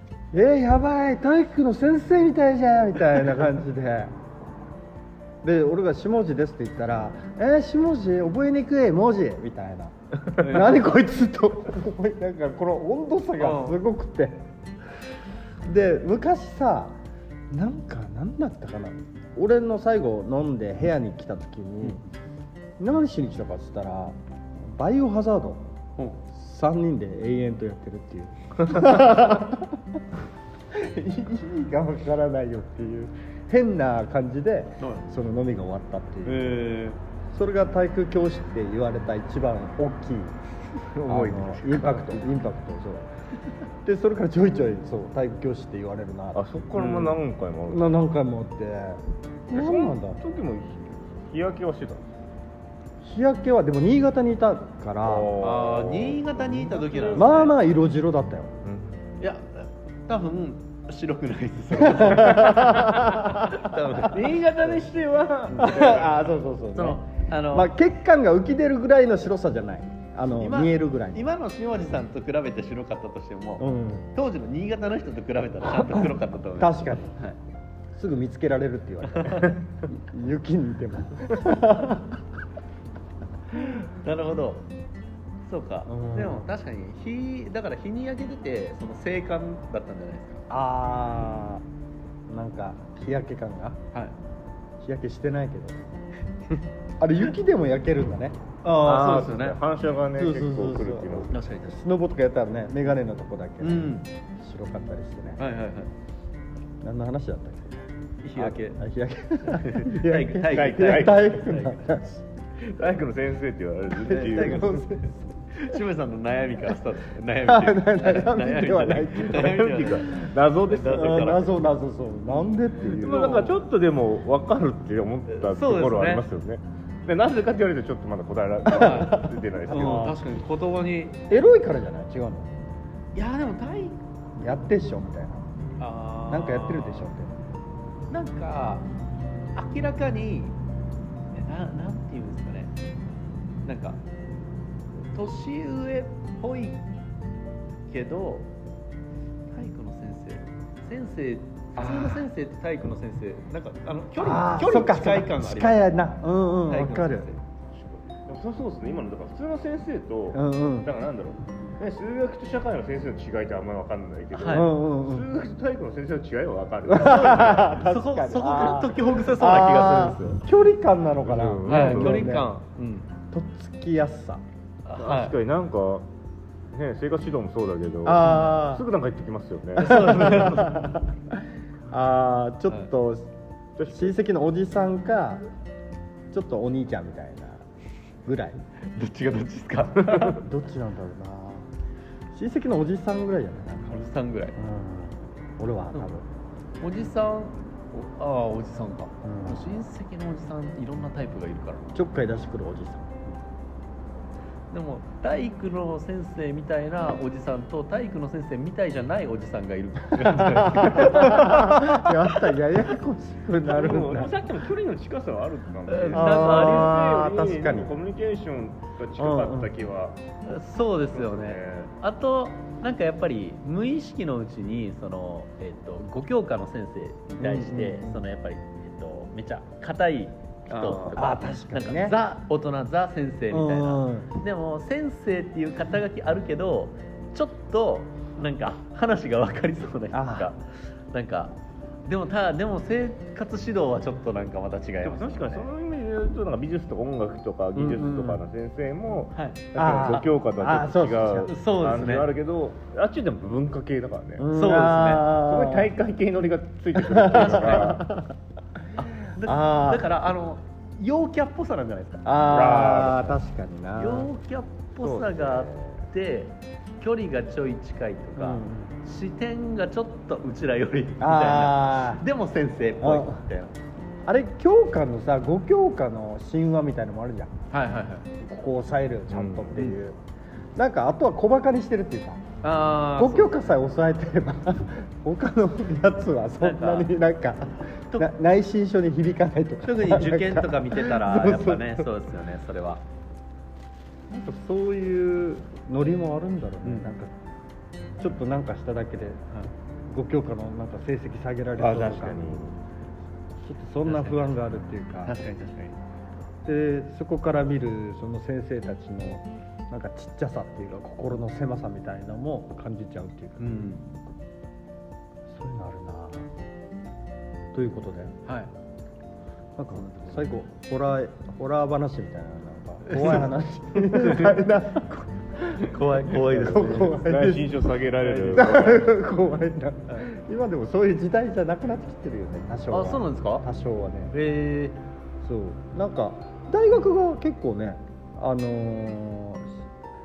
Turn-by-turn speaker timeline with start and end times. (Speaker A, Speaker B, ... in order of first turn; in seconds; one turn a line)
Speaker A: 0.3-4.2
Speaker A: 5.4-14.5
Speaker B: 10.4-10.8
Speaker B: 13.4-13.8
Speaker A: 15.6-22.0
Speaker A: 22.8-25.7
Speaker B: 26.0-26.2
Speaker A: 26.3-29.8
Speaker A: 30.7-36.6
Speaker B: 34.8-35.1
Speaker B: 36.3-37.0
Speaker A: 37.3-40.4
Speaker C: 41.0-42.3
Speaker A: 41.0-43.1
Speaker A: 43.8-46.4
Speaker C: 46.3-48.0
Speaker B: 46.8-47.1
Speaker A: 47.7-50.2
Speaker C: 49.5-52.2
Speaker A: 53.0-55.3
Speaker C: 55.0-57.3
Speaker B: 55.4-57.5
Speaker A: 57.1-58.5
Speaker C: 58.6-59.1
Speaker B: 59.2-64.4
Speaker A: 61.8-63.7
Speaker C: 64.1-66.4
Speaker B: 65.5-66.0
Speaker A: 65.5-71.3
Speaker B: 66.7-67.8
Speaker B: 70.4-77.4
Speaker A: 73.6-74.1
Speaker A: 75.9-77.2
Speaker A: 77.9-82.2
Speaker B: 79.1-79.6
Speaker B: 83.9-84.7
Speaker B: 85.5-90.4
Speaker A: 85.9-86.5
Speaker A: 90.5-91.6
Speaker A: 92.3-93.8
Speaker A: 94.8-96.0
Speaker A: 97.0-98.4
Speaker B: 98.6-99.6
Speaker C: 98.8-101.3
Speaker A: 100.1-105.4
Speaker B: 101.3-101.8
Speaker B: 103.6-104.1
Speaker B: 105.4-105.9
Speaker A: 106.8-112.3
Speaker B: 108.2-108.8
Speaker B: 109.4-112.0
Speaker C: 110.4-111.5
Speaker C: 112.6-114.9
Speaker B: 114.1-121.5
Speaker A: 114.1-115.2
Speaker A: 117.4-119.6
Speaker C: 119.2-121.5
Speaker A: 120.8-123.5
Speaker B: 122.9-123.6
Speaker C: 122.9-130.2
Speaker B: 125.3-126.2
Speaker A: 128.7-130.2
Speaker B: 128.7-131.2
Speaker A: 131.3-132.5
Speaker B: 133.2-134.0
Speaker A: 134.4-135.5
Speaker B: 135.8-137.1
Speaker A: 136.3-137.3
Speaker B: 138.1-138.9
Speaker B: 139.6-140.6
Speaker B: 141.3-142.7
Speaker B: 143.7-144.0
Speaker B: 145.1-146.8
Speaker B: 147.9-148.5
Speaker B: 149.5-155.8
Speaker A: 151.8-152.3
Speaker A: 154.2-157.3
Speaker B: 156.7-157.5
Speaker C: 158.2-167.9
Speaker A: 160.3-160.9
Speaker B: 164.3-164.7
Speaker A: 164.5-165.3
Speaker A: 166.9-172.5
Speaker B: 167.0-170.4
Speaker C: 171.2-172.4
Speaker B: 171.7-173.1
Speaker A: 173.3-174.4
Speaker B: 174.8-175.4
Speaker C: 175.0-176.1
Speaker C: 176.7-180.5
Speaker A: 178.0-178.9
Speaker B: 178.2-178.5
Speaker B: 179.8-181.0
Speaker A: 179.8-183.3
Speaker C: 183.8-184.2
Speaker A: 183.9-185.4
Speaker A: 186.3-187.6
Speaker A: 188.2-188.6
Speaker B: 188.8-190.4
Speaker A: 190.1-191.7
Speaker A: 192.3-194.0
Speaker B: 193.9-194.6
Speaker A: 194.6-196.3
Speaker B: 196.8-201.9
Speaker A: 199.2-199.8
Speaker A: 201.9-203.1
Speaker B: 204.7-212.1
Speaker A: 210.2-214.3
Speaker C: 213.7-220.2
Speaker B: 215.9-217.0
Speaker A: 216.1-217.9
Speaker A: 219.2-219.7
Speaker B: 220.5-245.7
Speaker C: 221.1-221.9
Speaker A: 227.4-228.2
Speaker C: 230.7-231.3
Speaker A: 231.1-232.2
Speaker A: 233.5-234.3
Speaker A: 240.1-240.5
Speaker C: 245.0-254.5
Speaker A: 247.8-248.4
Speaker A: 249.8-251.5
Speaker B: 251.5-252.3
Speaker A: 254.4-255.9
Speaker B: 254.5-255.3
Speaker C: 255.2-258.0
Speaker A: 256.9-258.4
Speaker B: 257.3-258.0
Speaker B: 259.0-262.3
Speaker A: 259.3-260.1
Speaker A: 262.2-264.3
Speaker C: 262.5-263.4
Speaker B: 264.0-273.8
Speaker C: 265.0-266.1
Speaker A: 268.4-269.0
Speaker A: 271.2-272.2
Speaker A: 273.0-273.4
Speaker A: 274.3-277.5
Speaker B: 277.7-278.3
Speaker A: 278.4-280.2
Speaker C: 279.3-279.8
Speaker A: 280.8-282.5
Speaker B: 282.6-283.6
Speaker A: 283.2-292.1
Speaker B: 286.6-287.1
Speaker B: 289.8-293.0
Speaker A: 294.3-297.3
Speaker B: 296.8-297.1
Speaker A: 298.2-299.4
Speaker A: 300.1-302.6
Speaker C: 301.8-302.8
Speaker A: 303.6-305.4
Speaker B: 304.1-304.5
Speaker B: 305.2-306.0
Speaker A: 306.6-313.9
Speaker B: 313.6-314.1
Speaker A: 315.5-316.5
Speaker A: 317.7-318.4
Speaker B: 318.4-318.7
Speaker A: 319.8-327.9
Speaker B: 319.9-320.5
Speaker B: 323.1-324.6
Speaker B: 325.7-327.2
Speaker C: 326.5-329.2
Speaker B: 328.2-328.9
Speaker A: 328.5-334.3
Speaker B: 332.9-333.7
Speaker B: 334.3-335.0
Speaker A: 335.4-339.8